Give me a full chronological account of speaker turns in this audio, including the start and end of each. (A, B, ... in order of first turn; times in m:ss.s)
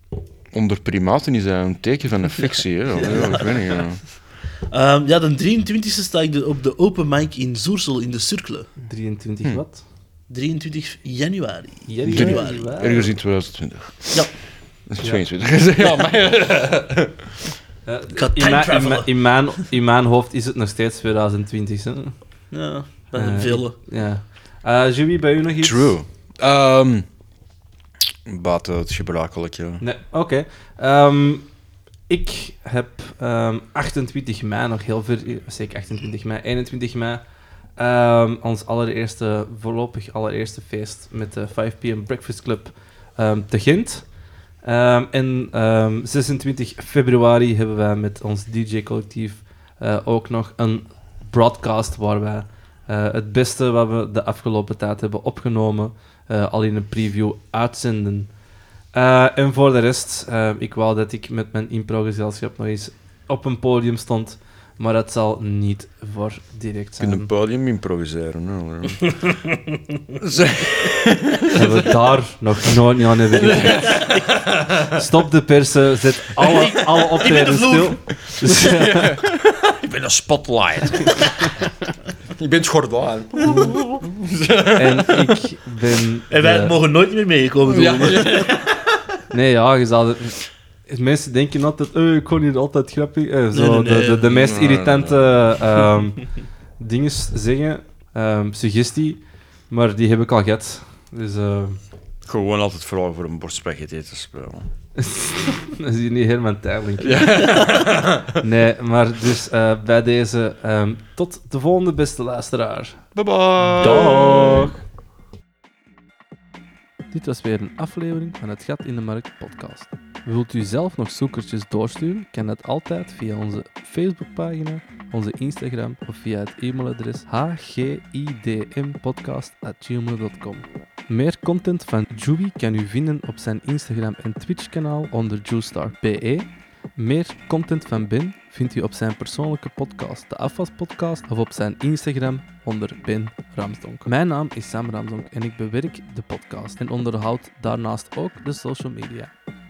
0:00.5-0:04.0 A
0:03.0-0:03.8 B
0:04.7-0:08.7 B
0:08.8-0:09.8 C
0:10.3-0:13.0 B
0:11.9-0:13.0 C
0:12.1-0:14.3 A
0:14.9-0:17.5 A
0:17.8-0:22.2 C
0:18.1-0:19.1 B
0:22.5-0:23.8 B
0:23.2-0:26.0 C
0:25.6-0:27.1 A
0:28.2-0:29.8 A
0:29.8-0:31.5 C
0:32.1-0:37.2 C
0:37.8-0:44.1 C
0:44.6-0:58.3 C
0:58.9-1:07.3 C
1:07.0-1:09.2 A
1:10.2-1:11.9 A
1:11.5-1:14.1 C
1:13.3-1:14.9 A
1:14.9-1:19.2 C
1:16.4-1:18.0 B
1:18.4-1:21.7 A
1:22.3-1:25.3 A
1:24.8-1:26.8 C
1:26.3-1:28.5 B
1:27.6-1:29.0 A
1:29.3-1:41.8 C
1:33.5-1:34.3 B
1:34.3-1:35.4 A
1:42.2-1:44.7 A
1:45.0-1:47.4 C
1:47.0-1:48.4 A
1:48.4-1:53.0 C
1:53.1-1:54.7 A
1:53.8-1:54.8 C
1:57.1-2:29.3 C